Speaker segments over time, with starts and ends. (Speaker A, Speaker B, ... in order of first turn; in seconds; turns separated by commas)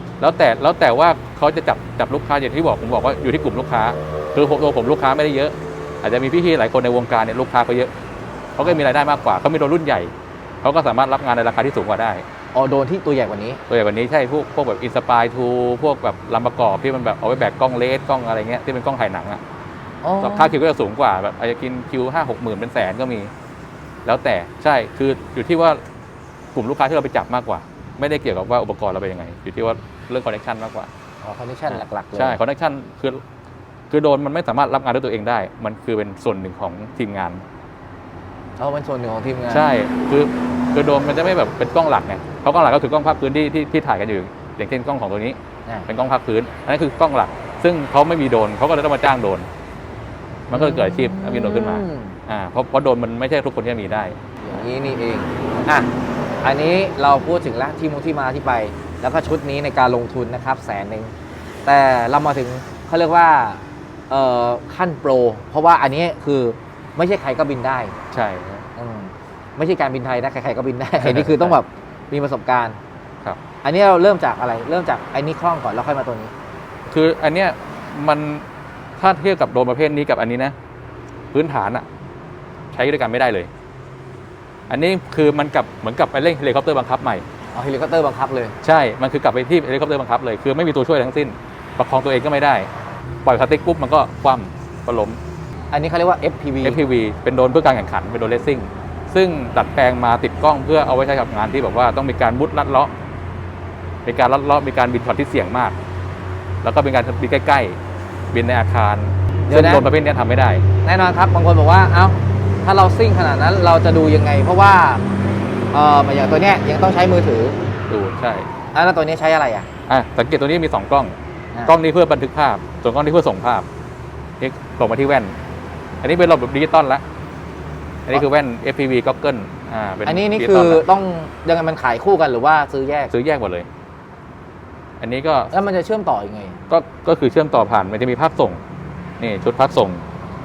Speaker A: 0.2-7.9, Speaker A: 8.6-12.2, Speaker B: 12.5-13.6, Speaker A: 13.7-19.4, Speaker B: 20.0-20.6, Speaker A: 20.2-23.3, Speaker A: 24.1-25.8, Speaker A: 26.6-30.9, Speaker B: 31.2-32.4, Speaker A: 31.7-33.2, Speaker A: 33.9-37.4, Speaker B: 38.6-39.7, Speaker A: 39.5-49.5, Speaker A: 50.5-54.2, Speaker B: 50.5-52.2, Speaker B: 54.4-55.9, Speaker B: 56.4-61.1, Speaker B: 61.6-68.0, Speaker A: 68.1-68.7, Speaker B: 68.8-72.8, Speaker A: 71.0-71.6, Speaker B: 73.6-76.3, Speaker A: 76.9-78.5, Speaker A: 79.0-80.5, Speaker A: 81.3-81.9, Speaker A: 82.7-83.5, Speaker A: 84.7-87.2, Speaker B: 87.5-88.5, Speaker A: 88.6-92.7, Speaker A: 93.2-95.2, Speaker B: 95.7-96.8, Speaker A: 96.6-102.9, Speaker A: 104.1-105.8, Speaker A: 106.6-107.8, Speaker A: 108.3-110.6, Speaker B: 109.5-109.9, Speaker B: 110.8-115.0, Speaker B: 115.7-117.6, Speaker A: 117.9-118.5, Speaker B: 118.7-119.7, Speaker A: 119.9-123.7, Speaker A: 124.4-125.4, Speaker A: 126.0-127.0, Speaker A: 128.1-130.8, Speaker B: 130.1-133.1, Speaker A: 133.1-133.7, Speaker A: 135.0-135.5, Speaker B: 135.5-136.6, Speaker A: 136.7-138.6, Speaker A: 139.2-140.0